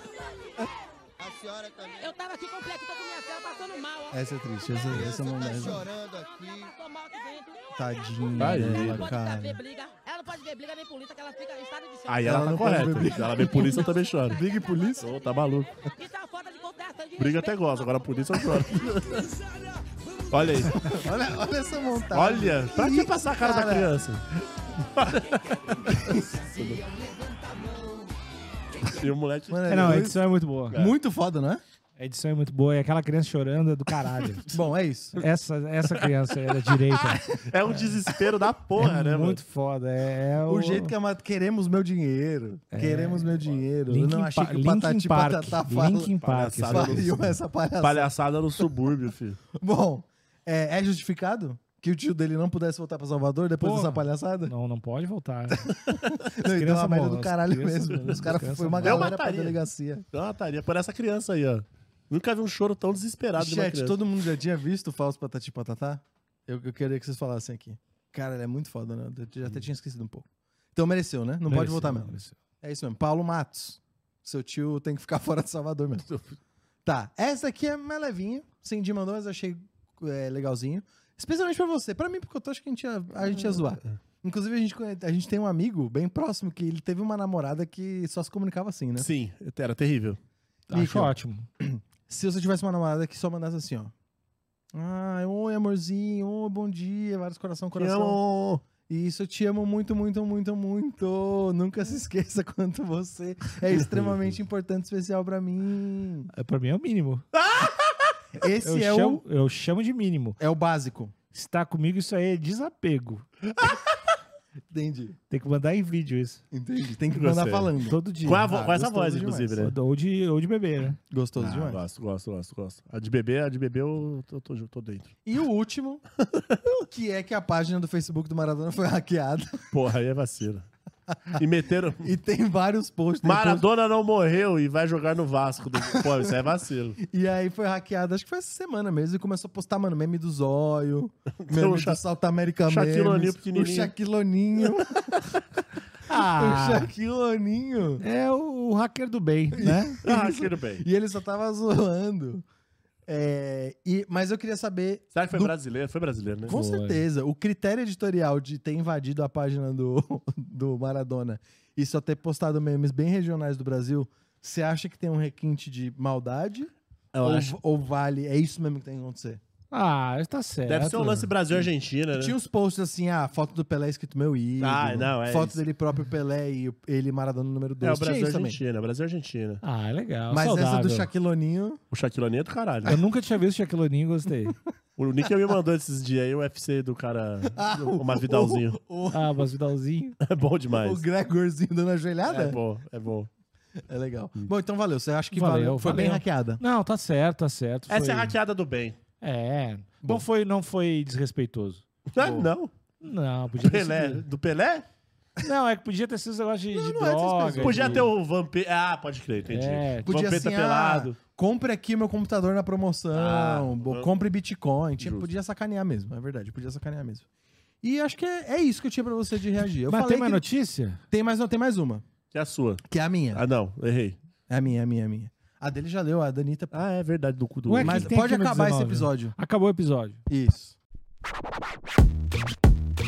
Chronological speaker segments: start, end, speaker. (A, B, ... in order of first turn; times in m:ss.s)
0:01.2-0:02.2 A
0:02.0-0:05.0 B
0:04.1-0:05.9 C
0:04.8-0:06.7 A
0:06.7-0:13.9 B
0:07.7-0:09.6 C
0:08.4-0:09.1 D
0:12.1-0:14.4 D
0:12.2-0:15.1 C
0:15.0-0:15.7 D
0:15.9-0:18.2 B
0:17.2-0:19.4 D
0:20.3-0:20.8 D
0:20.7-0:24.0 C
0:22.1-0:24.3 D
0:24.8-0:26.8 D
0:28.8-0:30.0 D
0:29.5-0:31.6 C
0:29.7-0:30.7 E
0:32.0-0:34.5 E
0:34.5-0:35.2 C
0:35.1-0:37.2 E
0:36.9-0:39.4 D
0:38.8-0:40.9 E
0:40.4-0:46.1 C
0:42.7-0:47.2 E
0:46.2-0:47.3 D
0:46.7-0:48.1 C
0:47.8-0:49.4 D
0:49.6-0:54.5 C
0:53.6-0:55.7 E
0:55.5-1:00.0 C
0:56.4-0:59.1 E
0:58.8-0:59.6 D
1:00.1-1:04.0 D
1:03.4-1:16.1 C
1:11.4-1:12.4 E
1:16.1-1:16.4 D
1:16.8-1:29.1 C
1:29.0-1:30.2 D
1:30.7-1:31.4 E
1:30.7-1:33.9 C
1:34.7-1:38.2 C
1:37.8-1:38.6 D
1:38.9-1:46.3 C
1:43.8-1:44.2 D
1:46.3-1:47.2 E
1:47.3-1:48.0 D
1:48.4-1:49.2 C
1:48.6-1:50.4 E
1:50.4-1:51.1 C
1:51.3-1:53.2 E
1:54.7-1:55.2 C
1:55.3-1:56.4 E
1:56.5-1:59.7 C
1:57.1-1:57.7 D
1:57.9-1:58.5 E
1:58.2-1:59.7 D
1:59.6-2:01.0 E
2:01.1-2:01.8 C
2:01.4-2:05.2 D
2:05.3-2:06.0 C
2:06.3-2:06.6 D
2:06.8-2:09.7 C
2:09.7-2:10.7 D
2:11.1-2:11.4 C
2:11.4-2:12.1 D
2:12.0-2:13.7 C
2:13.2-2:17.0 D
2:16.0-2:16.3 C
2:17.0-2:25.3 C
2:21.5-2:22.0 D
2:22.7-2:23.9 D
2:26.1-2:26.9 E
2:26.1-2:28.0 C
2:28.0-2:30.0 E
2:29.5-2:32.4 C
2:30.0-2:30.8 D
2:33.1-2:35.5 C
2:35.1-2:36.5 D
2:36.5-2:46.7 C
2:36.5-2:37.0 E
2:47.1-2:47.6 D
2:47.2-2:49.4 C
2:49.7-2:51.3 E
2:50.7-2:52.4 D
2:51.5-2:58.6 C
2:54.6-2:55.6 D
2:57.8-2:59.6 D
2:59.6-3:01.1 E
3:00.3-3:01.8 C
3:01.9-3:03.0 D
3:02.9-3:04.6 E
3:05.0-3:08.8 D
3:07.5-3:09.4 C
3:09.1-3:10.2 E
3:10.2-3:11.0 D
3:10.7-3:12.6 C
3:12.3-3:13.3 D
3:13.9-3:16.6 C
3:15.3-3:18.3 E
3:17.9-3:19.0 D
3:19.2-3:21.8 E
3:20.0-3:20.3 C
3:22.1-3:22.7 D
3:22.2-3:22.5 C
3:23.0-3:24.2 E
3:23.6-3:24.9 D
3:25.4-3:28.1 E
3:26.7-3:28.1 C
3:27.6-3:31.2 D
3:29.5-3:30.3 E
3:30.0-3:37.3 C
3:33.1-3:34.1 D
3:35.0-3:35.3 D
3:37.8-3:40.4 C
3:39.9-3:41.0 E
3:41.1-3:42.0 C
3:42.3-3:44.2 D
3:42.9-3:43.4 C
3:44.5-3:46.8 C
3:46.7-3:48.1 D
3:47.7-3:50.2 E
3:47.8-3:49.4 C
3:50.3-3:50.8 C